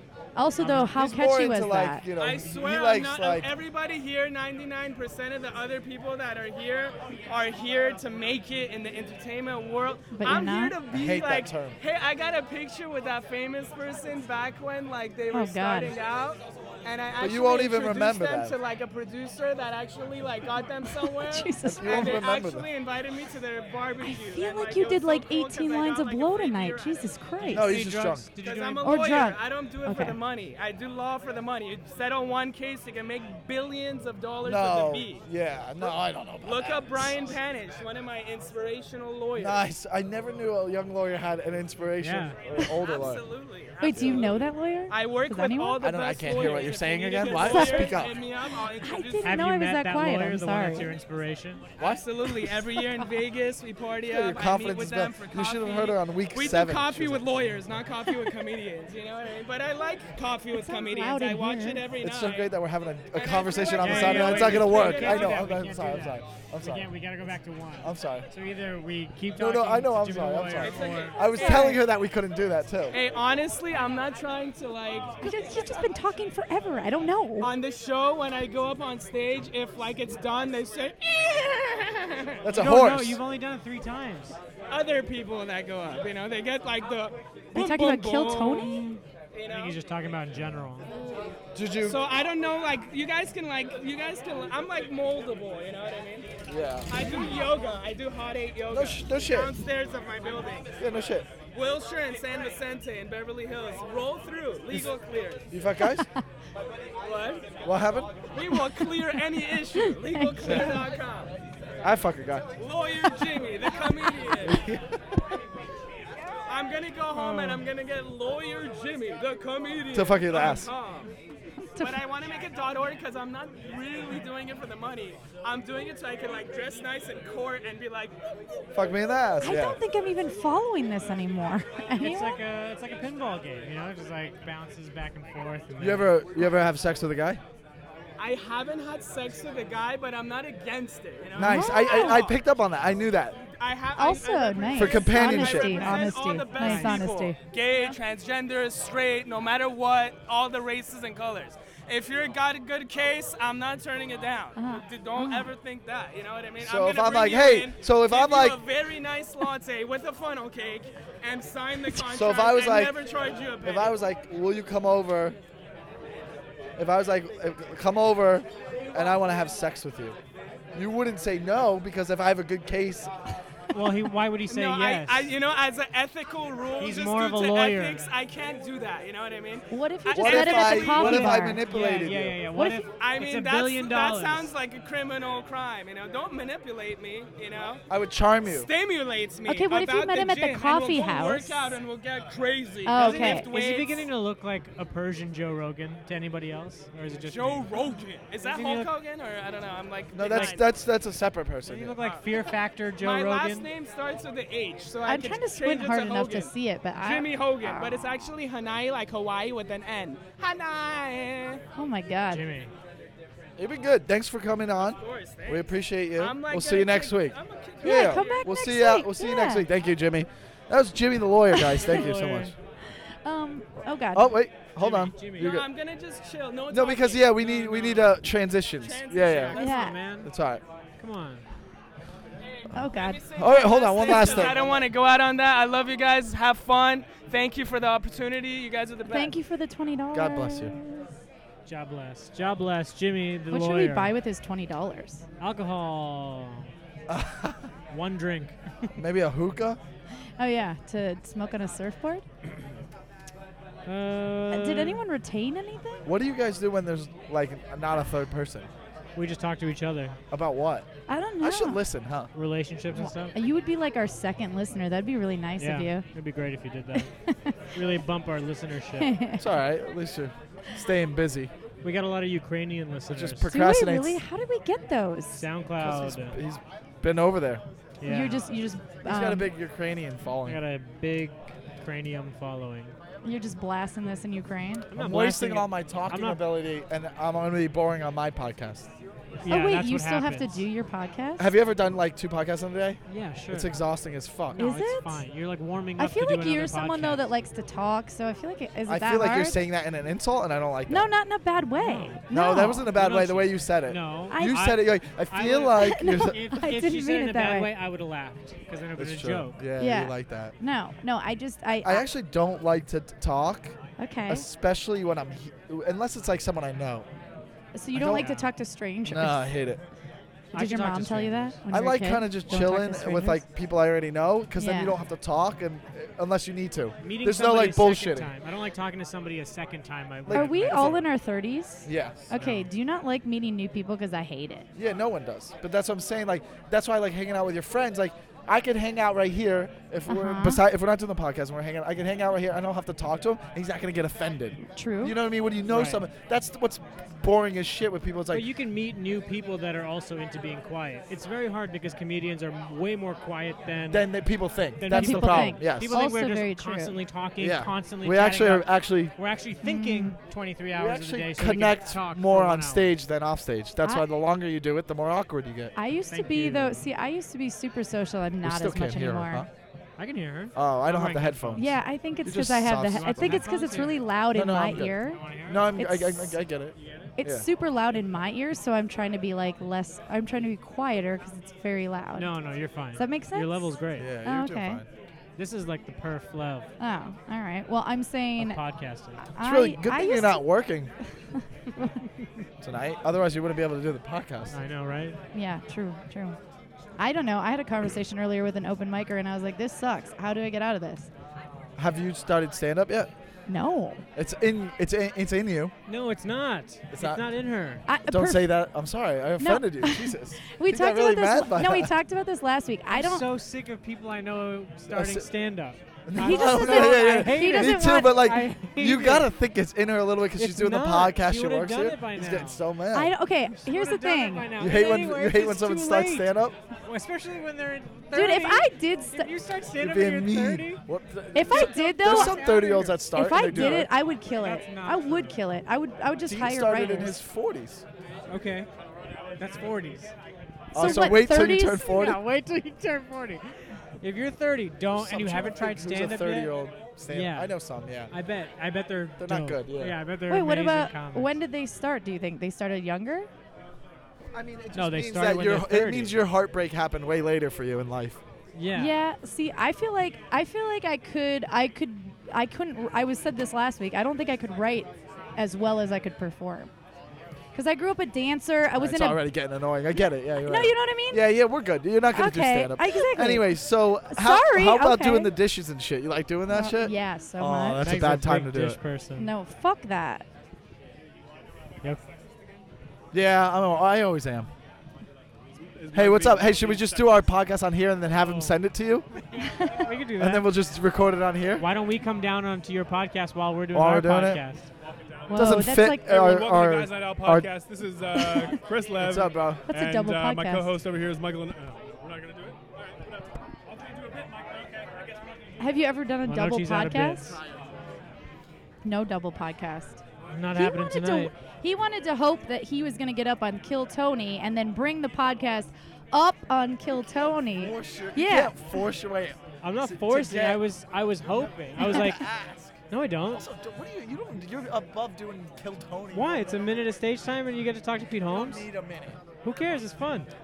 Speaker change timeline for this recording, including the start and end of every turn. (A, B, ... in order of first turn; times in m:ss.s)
0:00.4-0:02.0 A
0:00.6-0:00.9 B
0:00.7-0:03.5 C
0:02.2-0:27.1 D
0:10.1-0:10.8 A
0:10.9-0:11.8 C
0:15.3-0:15.9 A
0:17.2-0:18.6 C
0:21.0-0:22.2 A
0:21.6-0:22.7 C
0:24.0-0:27.7 A
0:27.5-0:28.3 C
0:27.5-0:29.2 B
0:28.4-0:35.2 D
0:28.8-0:30.2 A
0:34.4-0:37.3 C
0:35.8-0:39.6 D
0:39.3-0:43.2 C
0:42.0-0:42.4 B
0:42.8-0:49.4 D
0:43.8-0:45.8 A
0:43.8-0:44.3 C
0:45.8-0:48.2 C
0:47.3-0:48.0 A
0:48.8-0:50.9 A
0:49.2-0:51.6 B
0:51.8-1:02.5 D
0:54.0-0:57.2 C
1:00.5-1:01.8 A
1:02.0-1:06.9 C
1:03.1-1:05.4 D
1:03.8-1:11.2 B
1:07.8-1:08.2 C
1:09.4-1:13.0 C
1:10.6-1:11.8 D
1:11.4-1:11.8 A
1:12.9-1:15.3 D
1:15.2-1:17.5 A
1:17.4-1:22.4 D
1:22.4-1:23.2 C
1:22.5-1:24.4 B
1:24.7-1:29.8 D
1:27.5-1:29.0 A
1:29.5-1:30.9 B
1:31.5-1:32.0 C
1:31.8-1:36.4 D
1:36.5-1:36.9 C
1:36.9-1:40.7 D
1:38.7-1:39.6 C
1:40.8-1:41.3 C
1:41.4-1:45.4 D
1:45.5-1:46.1 C
1:47.0-1:47.5 D
1:47.6-1:48.2 C
1:48.3-1:51.3 D
1:49.8-1:50.8 A
1:50.4-1:50.8 C
1:51.8-1:52.5 C
1:52.6-1:54.6 D
1:54.4-1:54.8 C
1:56.5-2:01.1 D
1:57.2-1:57.6 B
1:59.9-2:00.7 C
2:01.7-2:02.0 A
2:01.8-2:08.2 D
2:08.7-2:09.8 C
2:09.4-2:12.4 A
2:12.0-2:16.2 B
2:15.8-2:17.4 C
2:18.2-2:22.4 D
2:21.3-2:23.4 C
2:21.4-2:22.2 A
2:23.5-2:44.0 D
2:24.0-2:27.9 A
2:24.7-2:26.1 C
2:26.6-2:27.1 B
2:34.6-2:35.5 A
2:36.6-2:38.6 C
2:42.1-2:43.0 C
2:43.6-2:45.4 C
2:46.8-2:50.2 C
2:50.7-2:53.1 C
2:53.7-2:55.3 B
2:54.5-3:01.3 D
2:56.8-2:58.1 B
2:59.7-3:01.6 A
3:00.2-3:02.4 C
3:01.0-3:04.5 B
3:02.5-3:02.8 A
3:03.0-3:07.8 D
3:07.9-3:08.7 C
3:08.4-3:14.1 D
3:09.5-3:11.7 A
3:12.8-3:13.5 A
3:13.0-3:18.9 B
3:17.3-3:20.6 D
3:20.1-3:22.0 C
3:20.3-3:20.6 B
3:21.6-3:23.7 B
3:22.0-3:22.2 D
3:23.0-3:31.6 D
3:25.0-3:28.1 A
3:31.7-3:32.4 A
3:32.3-3:32.7 B
3:33.6-3:42.5 C
3:35.0-3:38.5 D
3:37.8-3:39.6 A
3:41.6-3:42.0 A
3:41.8-3:42.5 B
3:43.2-3:44.3 A
3:44.1-3:45.7 C
3:44.8-3:45.5 B
3:45.3-3:48.0 D
3:46.7-3:49.5 C
3:48.8-3:49.9 D
3:49.5-3:50.3 B
3:49.5-3:50.0 A
3:50.2-3:50.6 C
3:51.0-3:51.4 B
3:52.5-3:59.3 D
3:52.7-3:53.2 A
3:53.3-3:54.9 C
3:59.1-4:01.1 A
4:00.1-4:00.7 C
4:01.6-4:04.1 B
4:03.5-4:05.2 A
4:05.4-4:06.7 B
4:07.1-4:07.7 C
4:07.9-4:08.9 B
4:09.0-4:09.8 C
4:10.4-4:12.2 A
4:13.8-4:15.0 B
4:14.5-4:16.1 A
4:16.0-4:18.7 C
4:19.2-4:20.2 B
4:20.3-4:20.8 C
4:21.1-4:21.8 A
4:21.4-4:22.3 C
4:22.3-4:23.3 B
4:22.9-4:26.0 A
4:25.6-4:27.1 B
4:26.9-4:27.5 A
4:27.7-4:29.2 B
4:29.0-4:29.4 A
4:29.4-4:31.5 C
4:31.8-4:33.5 B
4:33.1-4:34.2 C
4:33.5-4:35.4 A
4:35.3-4:36.4 B
4:35.8-4:37.6 C
4:38.0-4:38.5 B
4:38.0-4:39.5 A
4:39.0-4:40.6 C
4:40.4-4:42.9 B
4:43.2-4:44.9 A
4:44.9-4:46.4 B
4:44.9-4:48.9 C
4:49.4-4:50.6 B
4:49.4-4:51.5 A
4:51.4-4:54.6 C
4:53.0-4:53.8 B
4:54.5-4:57.3 B
4:54.6-4:55.2 A
4:56.0-4:59.6 A
4:58.9-5:01.1 C
5:00.9-5:02.9 A
5:01.8-5:02.2 B
5:02.3-5:06.4 C
5:02.9-5:09.6 B
5:04.3-5:04.7 A
5:05.8-5:07.7 A
5:09.0-5:10.5 C
5:09.8-5:12.0 A
5:11.8-5:13.8 C
5:14.0-5:14.4 A
5:14.3-5:17.0 C
5:17.7-5:19.4 A
5:17.9-5:18.3 C
5:18.1-5:18.5 B
5:19.1-5:19.8 C
5:20.5-5:21.6 B
5:20.5-5:23.4 A
5:21.7-5:28.3 C
5:24.6-5:25.0 A
5:27.0-5:31.0 B
5:30.3-5:31.0 C
5:30.3-5:34.7 A
5:31.8-5:32.3 C
5:32.3-5:32.7 B
5:34.8-5:48.5 C
5:40.1-5:40.6 A
5:44.7-5:45.1 A
5:45.7-5:46.0 B
5:48.3-5:54.1 B
5:53.9-5:56.0 C
5:54.8-6:02.9 B
5:54.9-5:57.0 A
5:57.4-5:59.1 C
5:59.6-6:00.2 A
6:00.7-6:05.7 C
6:05.8-6:09.4 A
6:06.1-6:06.9 B
6:08.4-6:09.5 C
6:10.0-6:11.7 B
6:10.5-6:13.5 C
6:11.6-6:15.2 A
6:12.9-6:14.1 B
6:14.3-6:17.4 C
6:14.7-6:15.7 B
6:15.8-6:16.4 A
6:16.8-6:17.1 E
6:17.2-6:22.3 A
6:22.2-6:24.1 B
6:22.9-6:24.8 A
6:24.0-6:24.9 C
6:25.4-6:26.7 B
6:26.8-6:28.6 A
6:28.4-6:29.3 B
6:29.2-6:30.4 A
6:29.4-6:30.9 C
6:32.6-6:34.6 C
6:34.5-6:35.2 B
6:35.3-6:36.4 A
6:37.0-6:41.1 A
6:41.8-6:43.1 C
6:43.5-6:44.0 A
6:44.2-6:45.7 C
6:45.9-6:47.8 B
6:46.9-6:47.3 C
6:47.9-6:48.5 A
6:47.9-6:52.0 C
6:49.4-6:53.3 A
6:52.9-6:59.3 B
6:54.9-6:55.3 C
6:56.1-7:03.1 C
6:56.2-6:58.4 A
7:00.4-7:02.6 B
7:02.9-7:04.5 A
7:03.5-7:06.3 B
7:04.5-7:06.6 C
7:06.8-7:10.8 B
7:08.1-7:09.3 A
7:09.7-7:13.9 C
7:11.3-7:12.4 A
7:11.4-7:15.3 B
7:13.1-7:17.2 A
7:16.2-7:17.8 C
7:18.3-7:18.7 B
7:19.4-7:20.1 B
7:20.7-7:22.2 C
7:20.7-7:21.9 A
7:20.8-7:26.5 B
7:24.9-7:28.1 C
7:27.1-7:27.6 B
7:28.1-7:31.4 B
7:29.2-7:30.0 C
7:30.3-7:33.3 A
7:34.3-7:38.2 C
7:34.7-7:36.2 B
7:38.5-7:39.0 B
7:38.7-7:46.7 A
7:47.5-7:49.2 A
7:48.7-7:58.8 C
7:50.4-7:51.2 A
7:52.1-7:55.3 A
7:56.5-7:57.9 A
7:57.8-7:59.3 B
7:59.2-8:00.2 A
8:01.9-8:02.6 E
8:03.1-8:04.5 C
8:05.6-8:07.3 E
8:05.9-8:09.0 C
8:08.2-8:08.6 B
8:09.5-8:09.7 A
8:09.5-8:10.5 B
8:10.1-8:11.7 C
8:11.6-8:14.6 B
8:13.7-8:14.4 C
8:14.8-8:25.5 E
8:15.3-8:16.2 A
8:15.3-8:17.5 C
8:18.1-8:18.6 A
8:19.0-8:19.7 C
8:19.7-8:20.7 A
8:25.6-8:27.4 A
8:26.2-8:27.4 B
8:28.8-8:30.0 A
8:30.3-8:31.3 B
8:30.5-8:38.5 A
8:37.0-8:40.7 C
8:39.6-8:42.3 B
8:41.2-8:42.7 C
8:42.9-8:43.4 B
8:43.3-8:46.9 C
8:46.1-8:48.7 B
8:48.3-8:49.2 C
8:49.4-8:50.3 B